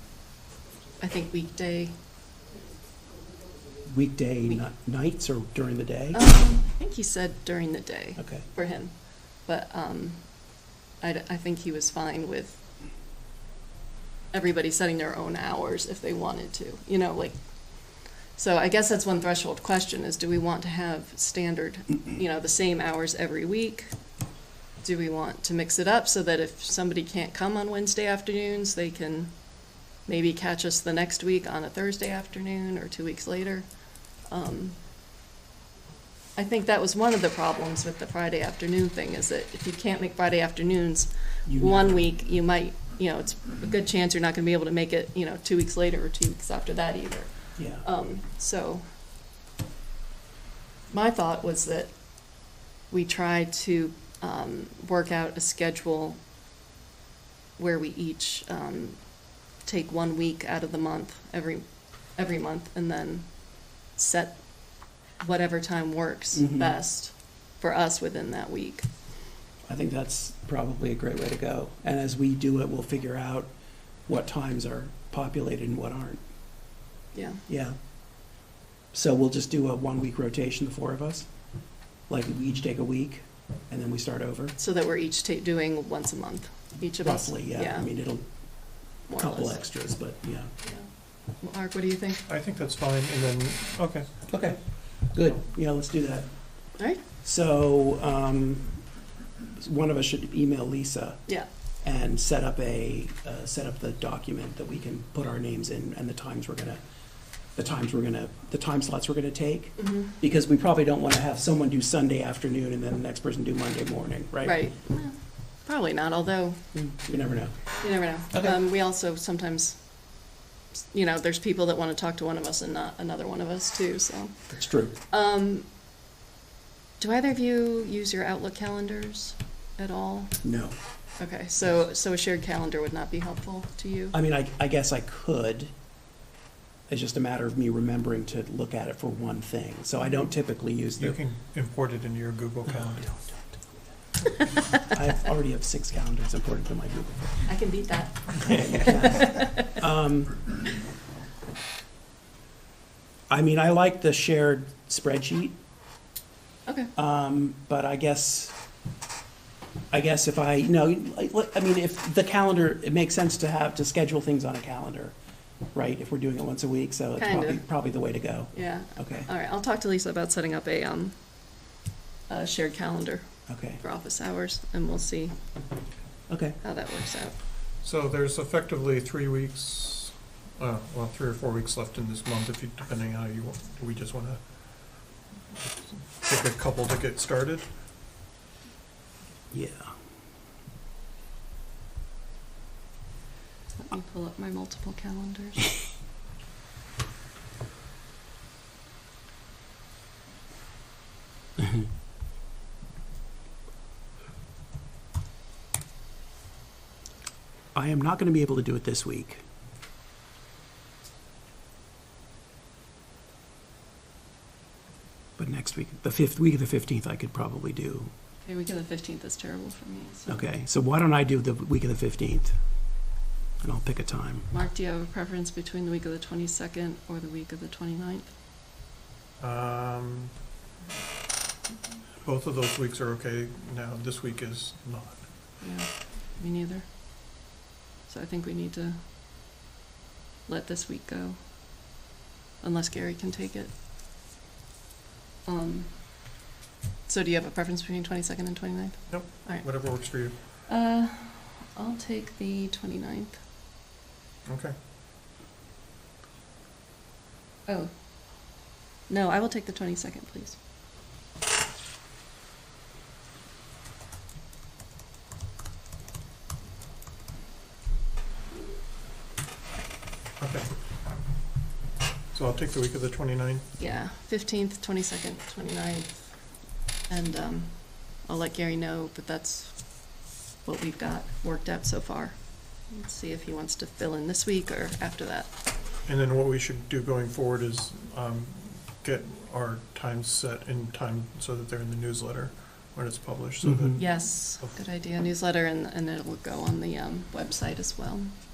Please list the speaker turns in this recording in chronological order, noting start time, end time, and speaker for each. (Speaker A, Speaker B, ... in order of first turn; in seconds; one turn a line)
Speaker A: 1.0-1.9
Speaker B: 3.8-6.2
Speaker A: 6.1-12.6
Speaker B: 8.2-8.4
Speaker A: 14.3-24.0
Speaker A: 24.8-34.8
Speaker A: 36.4-48.8
Speaker B: 41.5-42.0
Speaker B: 47.6-47.8
Speaker A: 50.9-52.1
Speaker A: 52.9-56.2
Speaker A: 57.6-68.9
Speaker B: 66.3-66.8
Speaker B: 69.7-73.5
Speaker B: 74.0-76.2
Speaker A: 77.1-77.4
Speaker B: 77.5-77.8
Speaker B: 78.9-81.3
Speaker B: 82.1-84.5
Speaker A: 84.6-87.9
Speaker B: 87.0-88.2
Speaker B: 89.0-90.5
Speaker A: 89.1-89.6
Speaker A: 90.6-92.2
Speaker C: 92.3-94.1
Speaker B: 94.3-98.8
Speaker A: 96.8-97.0
Speaker B: 99.5-106.8
Speaker B: 107.5-114.7
Speaker A: 109.8-110.1
Speaker A: 114.4-116.6
Speaker B: 116.7-118.6
Speaker A: 117.8-125.7
Speaker B: 124.5-124.9
Speaker A: 127.0-130.4
Speaker B: 130.4-130.7
Speaker A: 131.2-134.1
Speaker B: 134.1-135.7
Speaker B: 136.9-141.2
Speaker A: 140.0-140.3
Speaker C: 141.0-143.4
Speaker B: 142.8-143.8
Speaker B: 144.8-147.5
Speaker A: 147.4-149.7
Speaker B: 148.4-150.6
Speaker B: 153.3-155.5
Speaker A: 156.7-156.9
Speaker B: 156.9-158.6
Speaker B: 159.9-165.2
Speaker B: 165.7-169.3
Speaker A: 167.2-167.8
Speaker A: 168.5-171.2
Speaker A: 172.3-175.4
Speaker B: 173.5-173.8
Speaker B: 176.3-176.6
Speaker A: 176.6-177.4
Speaker C: 177.8-185.2
Speaker C: 185.8-187.8
Speaker B: 189.5-189.9
Speaker A: 193.7-195.7
Speaker B: 207.7-209.4
Speaker B: 215.4-218.1
Speaker A: 218.4-220.4
Speaker B: 220.3-222.6
Speaker B: 223.6-224.5
Speaker A: 224.5-228.3
Speaker C: 229.4-230.4
Speaker C: 232.2-235.4
Speaker A: 235.6-237.5
Speaker A: 238.1-239.0
Speaker A: 240.4-241.4
Speaker A: 242.6-243.7
Speaker A: 245.4-246.3
Speaker A: 247.1-253.4
Speaker C: 249.1-250.4
Speaker C: 254.4-254.8
Speaker A: 257.7-260.6
Speaker C: 270.4-270.7
Speaker C: 272.3-273.7
Speaker A: 273.8-285.5
Speaker C: 286.0-294.8
Speaker B: 293.6-294.0
Speaker A: 294.0-298.3